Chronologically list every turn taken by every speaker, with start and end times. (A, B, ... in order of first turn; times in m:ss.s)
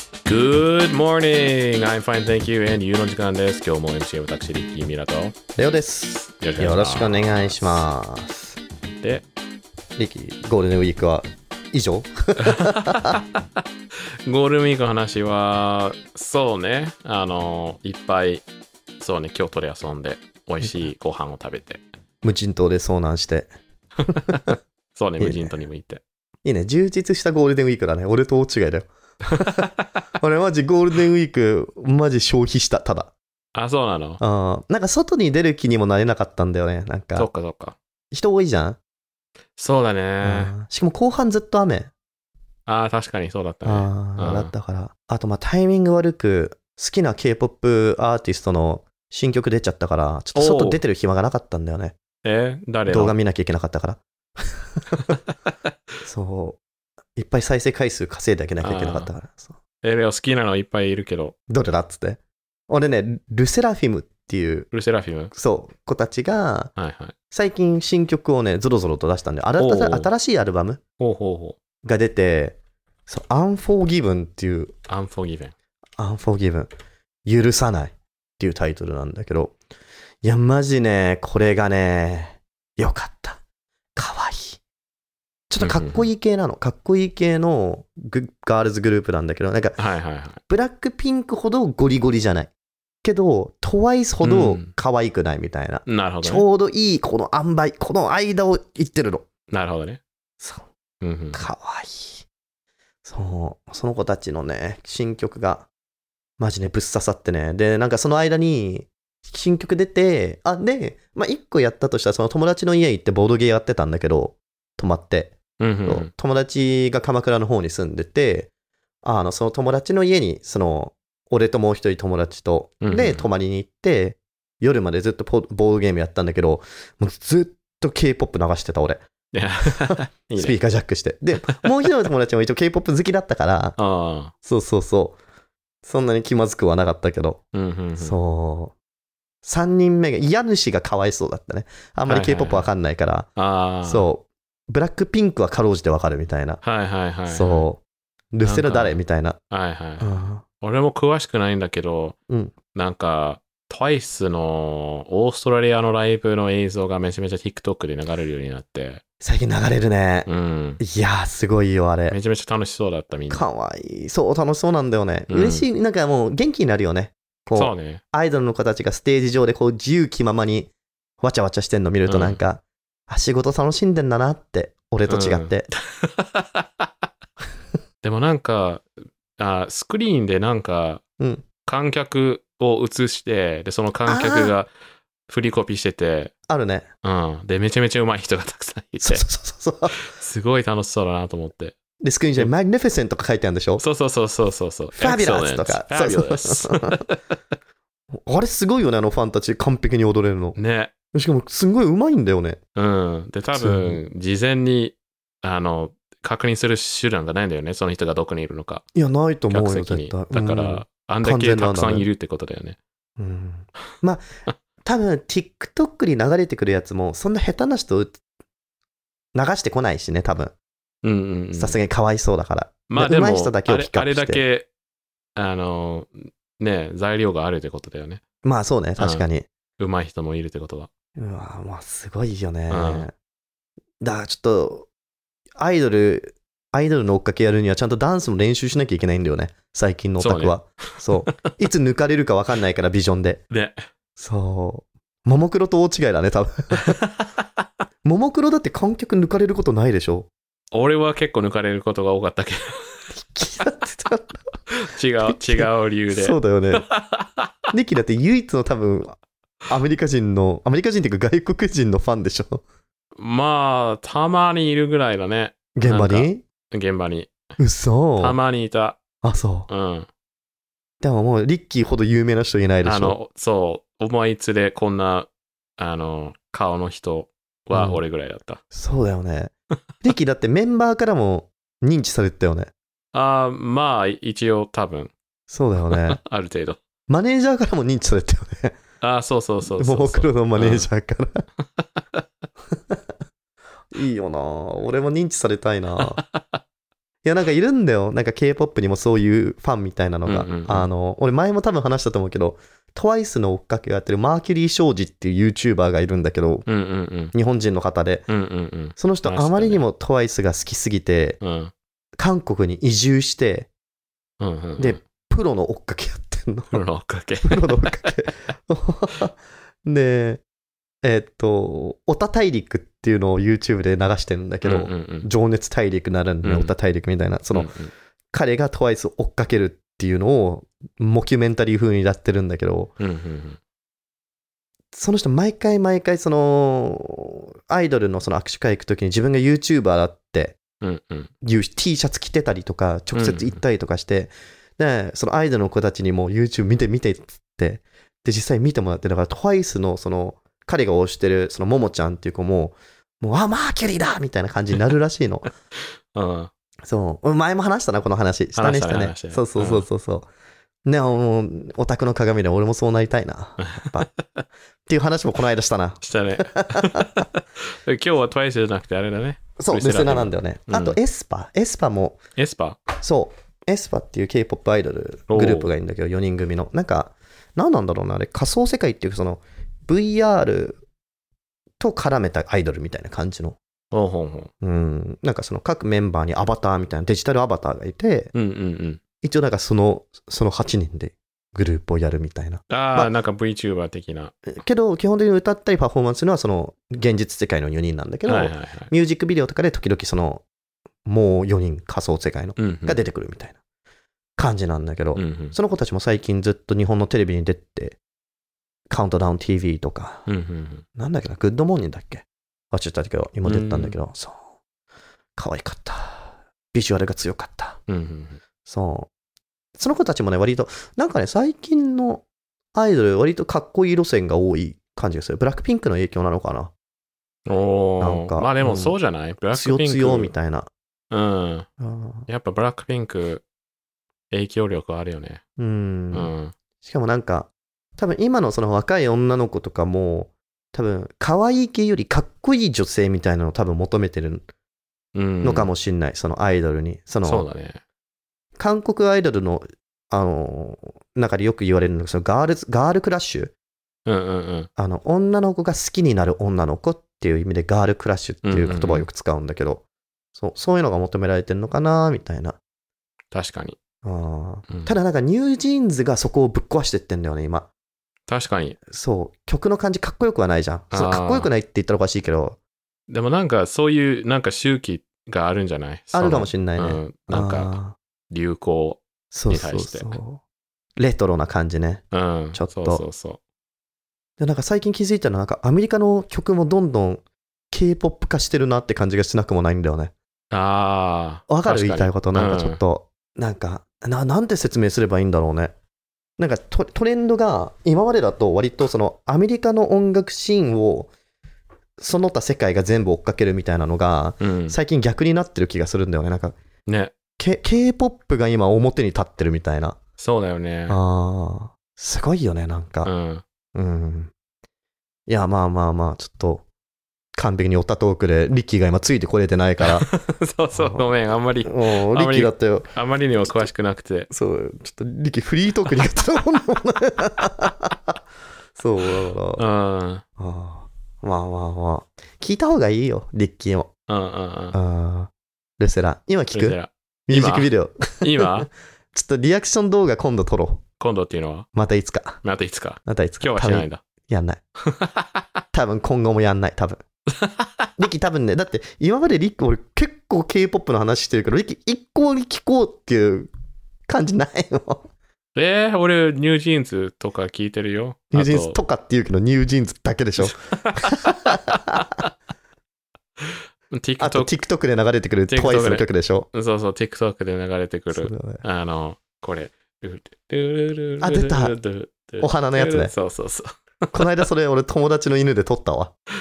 0:00.2-0:05.3 A
0:05.6-0:08.6 B
0:06.3-0:07.8 A
0:09.0-0:09.2 A
0:10.0-0:13.2 B
0:12.4-0:13.4 A
0:14.2-0:18.4 A
0:19.0-0:21.8 A
0:20.6-0:20.9 B
0:22.2-0:23.5 B
0:24.1-0:24.5 B
0:24.1-0:26.0 A
0:25.2-0:25.5 B
0:26.4-0:33.1 B
0:29.4-0:29.9 A
0:33.5-0:34.2 A
0:34.2-0:37.3 B
0:37.2-0:37.8 A
0:38.1-0:38.8 B
0:39.6-0:40.5 A
0:40.2-0:41.9 B
0:42.7-0:44.5 A
0:43.6-0:52.0 B
0:50.3-0:50.8 A
0:52.2-0:53.2 A
0:52.9-0:55.0 B
0:55.1-0:55.5 A
0:56.0-0:56.6 B
0:57.1-0:59.5 B
0:58.6-0:59.1 A
0:59.8-1:01.3 A
1:01.5-1:04.7 B
1:04.7-1:05.3 A
1:05.3-1:06.7 B
1:06.8-1:07.1 A
1:07.3-1:10.8 B
1:09.6-1:10.1 A
1:11.0-1:11.6 A
1:11.8-1:14.7 B
1:14.9-1:15.5 A
1:16.0-1:16.7 B
1:17.2-1:19.5 B
1:20.2-1:23.4 B
1:23.9-1:24.6 B
1:25.5-1:29.8 B
1:25.6-1:26.1 A
1:29.8-1:30.4 A
1:30.5-1:32.5 B
1:33.0-1:39.2 B
1:34.2-1:34.7 A
1:35.8-1:36.4 A
1:39.5-1:40.0 A
1:40.4-1:40.6 B
1:41.0-1:41.4 A
1:41.3-1:42.2 B
1:43.0-1:45.7 B
1:46.4-1:58.5 B
1:55.6-1:56.1 A
1:59.0-2:09.0 B
2:02.8-2:03.3 A
2:09.3-2:10.6 A
2:09.8-2:13.8 B
2:13.8-2:14.3 A
2:14.4-2:15.2 B
2:15.8-2:17.4 B
2:17.5-2:18.2 A
2:18.0-2:18.7 B
2:19.4-2:23.3 B
2:22.1-2:22.7 A
2:23.4-2:24.1 A
2:23.8-2:26.6 B
2:26.6-2:27.7 A
2:27.3-2:27.8 B
2:28.3-2:29.4 B
2:28.4-2:32.2 A
2:30.0-2:30.4 B
2:32.3-2:32.5 B
2:32.7-2:39.0 A
2:39.2-2:40.3 B
2:40.2-2:40.8 A
2:40.8-2:42.2 B
2:42.1-2:43.4 A
2:43.3-2:50.7 B
2:45.3-2:45.6 A
2:47.5-2:48.0 A
2:51.2-2:55.7 B
2:52.1-2:52.4 A
2:55.1-2:56.9 A
2:58.0-3:01.0 A
3:01.2-3:01.4 B
3:01.6-3:04.7 A
3:04.0-3:04.5 B
3:05.3-3:06.3 A
3:06.5-3:06.9 B
3:07.0-3:09.2 A
3:09.0-3:10.0 B
3:09.9-3:11.8 A
3:12.0-3:13.8 B
3:13.8-3:17.4 A
3:14.9-3:17.0 B
3:18.2-3:20.6 B
3:20.6-3:20.9 A
3:21.1-3:22.6 B
3:22.8-3:28.8 A
3:23.5-3:24.0 B
3:28.9-3:32.1 B
3:29.5-3:32.8 A
3:33.2-3:34.3 B
3:34.8-3:38.1 B
3:39.3-3:40.5 B
3:41.0-3:41.8 A
3:41.6-3:44.4 B
3:42.9-3:44.7 A
3:45.4-3:48.2 A
3:48.4-3:49.5 B
3:49.0-3:49.2 A
3:49.8-3:50.9 A
3:51.2-3:53.1 B
3:52.7-3:53.1 A
3:54.0-3:54.9 B
3:55.6-4:03.4 B
4:00.2-4:01.4 A
4:03.5-4:03.8 A
4:04.2-4:07.0 B
4:06.9-4:07.4 A
4:08.0-4:10.3 B
4:10.7-4:13.0 A
4:13.1-4:14.4 B
4:14.7-4:17.5 A
4:15.2-4:16.8 B
4:17.7-4:19.1 B
4:19.7-4:22.6 B
4:23.2-4:27.3 A
4:25.7-4:26.4 B
4:27.6-4:28.4 B
4:28.2-4:29.0 A
4:29.2-4:29.7 B
4:29.7-4:30.1 A
4:31.0-4:33.2 B
4:32.8-4:38.6 A
4:37.7-4:38.0 B
4:38.7-4:42.7 B
4:43.1-4:45.1 A
4:45.5-4:46.2 B
4:45.8-4:46.8 A
4:47.1-4:48.8 B
4:49.0-4:50.9 A
4:49.8-4:51.4 B
4:51.6-4:52.2 A
4:53.9-4:56.2 B
4:56.2-4:56.6 A
4:57.2-5:06.7 B
5:00.2-5:00.9 A
5:06.6-5:07.3 A
5:07.3-5:08.3 B
5:08.3-5:09.8 A
5:09.0-5:11.4 B
5:11.4-5:11.7 A
5:12.2-5:13.7 B
5:14.4-5:15.0 A
5:14.8-5:16.8 B
5:16.7-5:18.3 A
5:17.4-5:20.4 B
5:21.0-5:27.7 B
5:24.6-5:25.3 A
5:26.4-5:26.7 A
5:27.5-5:27.9 A
5:28.3-5:32.9 B
5:33.0-5:33.6 A
5:34.9-5:40.6 B
5:40.8-5:41.3 A
5:41.4-5:55.5 B
5:43.1-5:43.6 A
5:56.1-5:56.5 A
5:56.9-6:00.3 B
5:58.6-5:59.9 A
6:00.8-6:04.1 B
6:03.6-6:04.4 A
6:04.8-6:07.1 B
6:06.0-6:11.0 A
6:09.6-6:12.2 B
6:12.4-6:12.8 A
6:13.0-6:20.8 B
6:15.3-6:15.7 A
6:21.8-6:23.6 B
6:23.9-6:24.5 A
6:24.6-6:28.3 B
6:28.3-6:29.0 A
6:29.2-6:33.1 B
6:32.7-6:34.3 A
6:34.5-6:40.4 B
6:38.2-6:38.9 A
6:41.0-6:43.6 B
6:42.6-6:43.0 A
6:44.4-6:48.0 B
6:45.1-6:45.6 A
6:48.9-6:50.3 B
6:50.3-6:50.8 A
6:51.0-6:54.4 B
6:53.4-6:54.0 A
6:55.4-6:57.8 B
6:57.9-6:58.4 A
6:58.6-6:59.1 B
6:59.8-7:06.7 B
7:07.4-7:10.3 A
7:08.0-7:09.0 B
7:09.5-7:10.7 B
7:11.1-7:11.7 A
7:11.8-7:12.3 B
7:12.3-7:13.4 A
7:14.3-7:15.4 A
7:15.6-7:24.4 B
7:16.1-7:16.5 A
7:25.1-7:25.7 A
7:25.4-7:27.5 B
7:27.2-7:27.8 A
7:28.6-7:33.5 B
7:34.0-7:34.7 A
7:34.8-7:39.8 B
7:38.4-7:39.1 A
7:40.3-7:42.6 B
7:43.3-7:43.8 A
7:44.0-7:47.7 B
7:44.7-7:44.9 A
7:48.3-7:48.8 A
7:48.9-7:52.6 B
7:50.9-7:51.5 A
7:53.1-7:57.8 A
7:56.1-7:58.0 B
7:58.3-8:00.2 A
7:59.3-8:00.4 B
8:01.0-8:03.0 B
8:02.1-8:03.4 A
8:04.4-8:10.1 B
8:10.5-8:12.8 A
8:11.5-8:15.7 B
8:16.4-8:21.1 B
8:22.0-8:26.5 B
8:24.4-8:24.8 A
8:26.9-8:27.1 A
8:27.4-8:30.0 B
8:30.2-8:31.0 A
8:30.9-8:33.1 B
8:33.0-8:33.4 A
8:33.7-8:34.3 B
8:35.3-8:36.6 B
8:37.3-8:40.1 B
8:39.8-8:44.3 A
8:40.7-8:41.1 B
8:41.6-8:42.9 B
8:44.3-8:48.1 B
8:48.8-8:49.6 B
8:49.6-8:50.2 A
8:50.4-8:53.9 B
8:54.1-8:54.8 A
8:54.7-9:00.8 B
8:56.5-8:58.7 A
9:01.0-9:01.7 A
9:01.7-9:02.4 B
9:02.4-9:04.0 A
9:03.0-9:04.6 B
9:04.8-9:05.4 A
9:05.7-9:07.0 B
9:07.4-9:07.9 A
9:08.0-9:13.5 B
9:14.1-9:15.1 B
9:15.6-9:18.8 A
9:18.3-9:22.1 B
9:20.4-9:22.0 A
9:23.4-9:24.5 A
9:24.2-9:26.5 B
9:25.5-9:34.4 A
9:28.1-9:28.6 B
9:31.2-9:31.7 B
9:32.4-9:33.1 B
9:34.1-9:36.1 B